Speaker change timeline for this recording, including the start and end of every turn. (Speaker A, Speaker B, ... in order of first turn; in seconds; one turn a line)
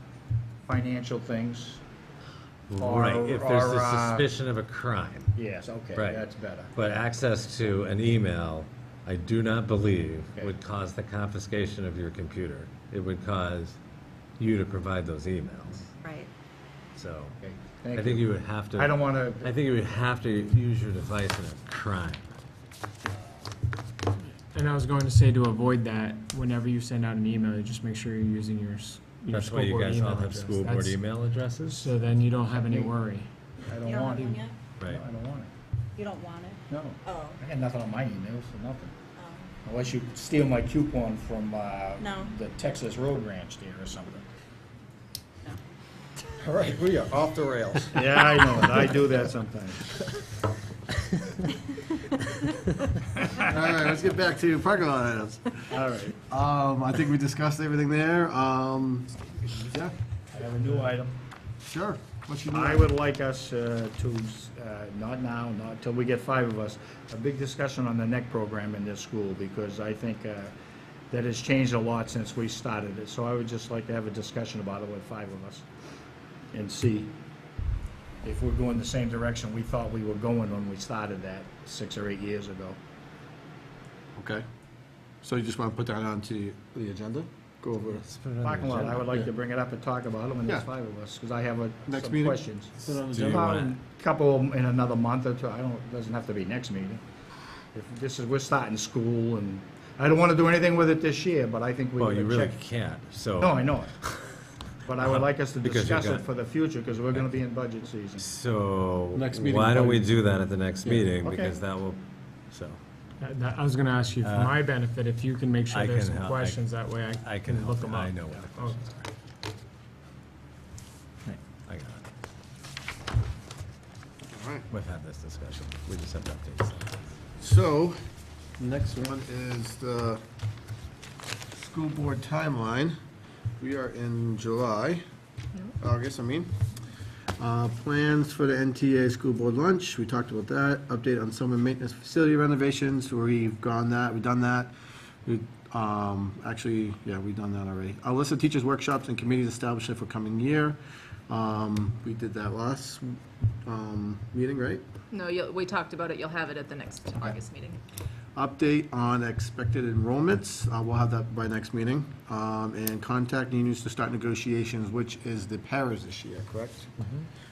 Speaker A: 0.7-1.8
Speaker B: 2.7-5.3
Speaker A: 2.8-4.3
Speaker A: 5.3-6.7
Speaker B: 5.9-6.2
Speaker B: 6.7-13.8
Speaker B: 14.4-15.9
Speaker C: 16.0-16.3
Speaker B: 16.9-17.4
Speaker A: 17.4-19.5
Speaker B: 17.9-22.2
Speaker D: 24.5-31.0
Speaker B: 29.3-31.9
Speaker D: 31.7-33.3
Speaker A: 32.6-32.9
Speaker A: 33.6-35.5
Speaker C: 33.8-34.5
Speaker B: 34.8-35.0
Speaker C: 36.0-37.4
Speaker A: 36.7-38.9
Speaker C: 39.1-39.5
Speaker A: 39.6-44.2
Speaker C: 42.0-42.3
Speaker A: 46.4-49.9
Speaker E: 47.4-47.8
Speaker E: 53.4-55.7
Speaker A: 55.7-56.2
Speaker E: 56.2-59.1
Speaker A: 60.3-61.2
Speaker E: 61.6-62.9
Speaker A: 62.5-70.5
Speaker A: 71.1-75.7
Speaker A: 76.5-77.1
Speaker A: 78.2-82.8
Speaker E: 84.2-84.4
Speaker E: 85.2-88.0
Speaker B: 87.9-89.3
Speaker A: 88.4-97.0
Speaker E: 91.9-93.5
Speaker B: 93.1-93.8
Speaker A: 97.7-102.6
Speaker B: 102.0-104.4
Speaker A: 103.4-103.9
Speaker A: 104.8-108.2
Speaker B: 105.0-106.3
Speaker B: 107.1-107.4
Speaker B: 108.2-112.8
Speaker E: 109.1-110.2
Speaker E: 110.8-111.6
Speaker D: 113.2-118.8
Speaker B: 114.2-114.6
Speaker B: 115.7-119.0
Speaker B: 121.7-122.1
Speaker E: 124.3-124.7
Speaker B: 124.7-126.9
Speaker E: 127.4-128.0
Speaker E: 128.6-130.2
Speaker E: 131.6-132.9
Speaker E: 133.6-135.0
Speaker E: 135.8-136.5
Speaker E: 137.4-144.7
Speaker E: 145.2-150.8
Speaker E: 151.3-154.8
Speaker F: 155.1-157.8
Speaker E: 158.3-166.9